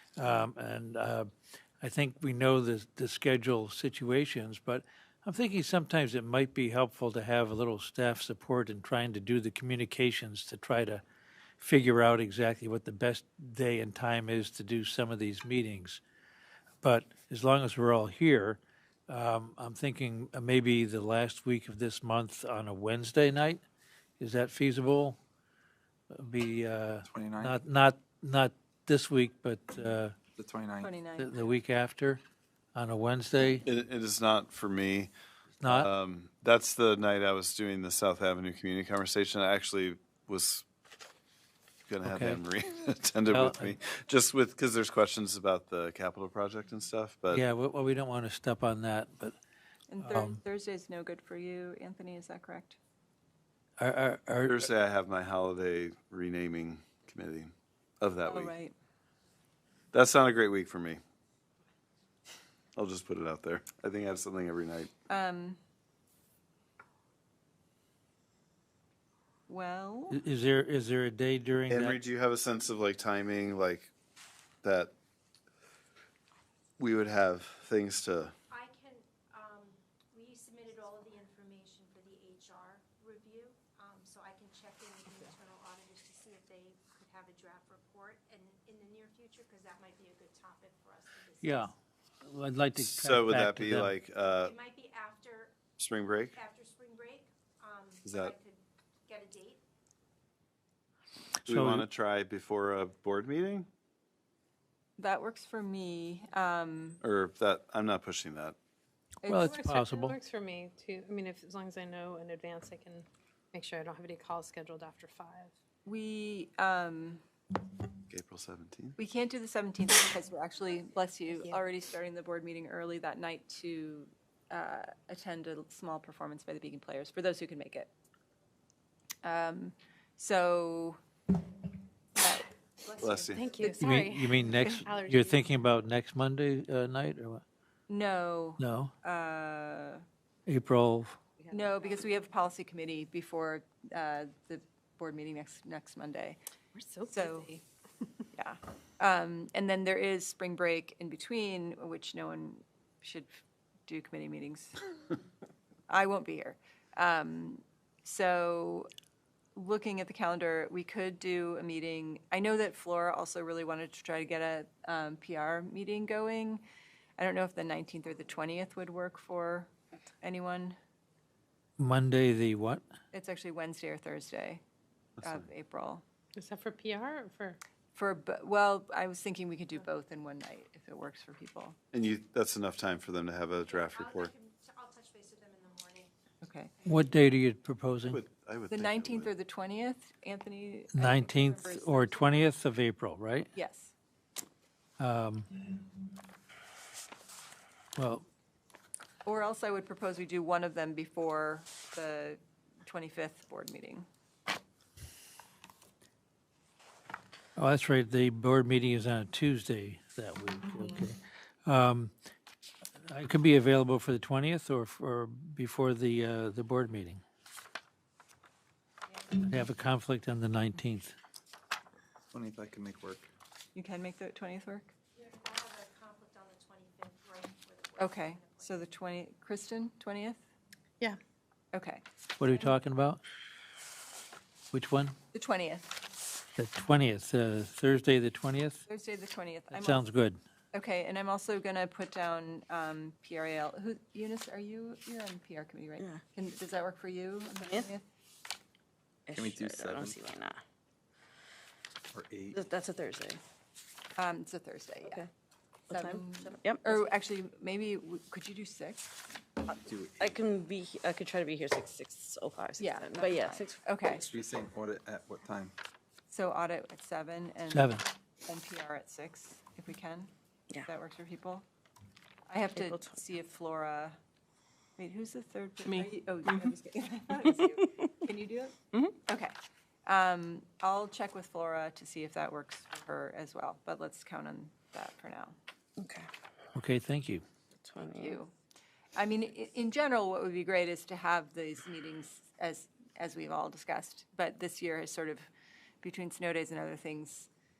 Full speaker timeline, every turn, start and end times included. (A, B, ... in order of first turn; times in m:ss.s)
0:00.2-0:01.3 A
0:01.8-0:11.0 A
0:11.6-0:16.0 A
0:16.8-0:23.6 A
0:24.2-0:25.2 A
0:26.1-0:30.1 A
0:27.0-0:27.6 B
0:30.4-0:30.9 B
0:30.8-0:31.3 C
0:31.2-0:32.2 A
0:32.7-0:33.6 A
0:33.6-0:35.1 D
0:35.6-0:35.9 A
0:35.6-0:40.6 D
0:41.9-0:47.4 D
0:42.0-0:42.4 A
0:43.3-0:43.7 A
0:47.3-0:49.4 A
0:49.9-0:52.8 C
0:50.0-0:50.4 A
0:53.8-0:54.7 A
0:54.5-0:58.5 D
0:58.2-0:58.7 C
0:59.9-1:01.0 D
1:02.8-1:04.9 D
1:05.1-1:05.6 C
1:09.5-1:10.2 C
1:10.1-1:12.0 A
1:11.7-1:13.9 D
1:14.6-1:14.9 D
1:16.8-1:18.3 D
1:18.5-1:31.7 E
1:31.4-1:31.7 A
1:32.2-1:33.9 A
1:32.8-1:34.5 D
1:34.4-1:35.6 E
1:35.8-1:36.4 D
1:36.3-1:39.6 E
1:38.0-1:38.3 D
1:41.4-1:43.7 D
1:41.5-1:41.8 A
1:45.0-1:47.0 C
1:47.0-1:48.6 D
1:49.2-1:49.6 C
1:49.2-1:50.2 A
1:49.3-1:55.5 F
1:55.8-1:57.2 C
1:58.1-1:59.0 D
1:59.0-2:07.9 C
2:01.3-2:01.6 F
2:09.2-2:11.0 C
2:12.2-2:12.5 C
2:12.8-2:13.8 E
2:13.0-2:13.5 D
2:13.3-2:15.4 F
2:13.6-2:14.8 C
2:13.7-2:17.4 A
2:17.9-2:20.0 C
2:18.6-2:18.9 A
2:20.5-2:21.2 A
2:21.4-2:22.0 F
2:21.5-2:26.4 C
2:26.7-2:27.6 F
2:27.1-2:27.6 C
2:28.3-2:33.3 C
2:33.9-2:34.9 C
2:35.9-2:38.9 C
2:39.5-2:46.6 C
2:47.2-2:49.7 C
2:50.2-2:50.8 C
2:51.8-2:52.8 A
2:53.1-2:54.6 C
2:55.2-2:56.0 C
2:56.4-2:57.6 F
2:57.9-3:01.8 C
3:01.9-3:04.3 D
3:03.7-3:06.1 E
3:06.4-3:06.7 C
3:06.8-3:08.2 A
3:08.1-3:09.3 D
3:08.7-3:12.4 C
3:10.9-3:13.5 A
3:13.5-3:13.9 C
3:15.0-3:15.5 A
3:18.0-3:18.2 A
3:19.2-3:24.0 C
3:27.6-3:32.1 A
3:30.6-3:31.0 C
3:33.0-3:37.2 A
3:39.4-3:41.1 A
3:42.3-3:43.3 B
3:43.7-3:44.9 C
3:45.1-3:48.8 E
3:48.0-3:50.4 C
3:51.7-3:52.0 C
3:52.4-3:53.2 A
3:54.7-3:55.2 A
3:55.3-3:55.8 C
3:56.6-3:58.8 A
3:58.8-4:00.0 C
3:59.7-4:00.4 A
4:00.7-4:08.0 C
4:07.6-4:07.9 G
4:09.2-4:10.6 G
4:09.3-4:10.2 B
4:12.1-4:12.6 B
4:12.5-4:13.4 G
4:14.2-4:15.2 C
4:15.9-4:17.1 G
4:15.9-4:19.1 C
4:19.8-4:20.4 B
4:20.2-4:23.8 G
4:22.8-4:24.2 C
4:24.2-4:25.7 B
4:26.3-4:30.3 C
4:27.7-4:28.0 A
4:30.8-4:31.6 C
4:32.5-4:34.2 C
4:32.8-4:33.2 G
4:35.0-4:39.5 C
4:35.9-4:36.6 G
4:40.0-4:45.6 C
4:46.0-4:46.3 G
4:46.7-4:47.4 A
4:47.8-4:48.4 G
4:48.0-4:48.5 C
4:49.2-4:55.5 C
4:56.0-4:57.5 C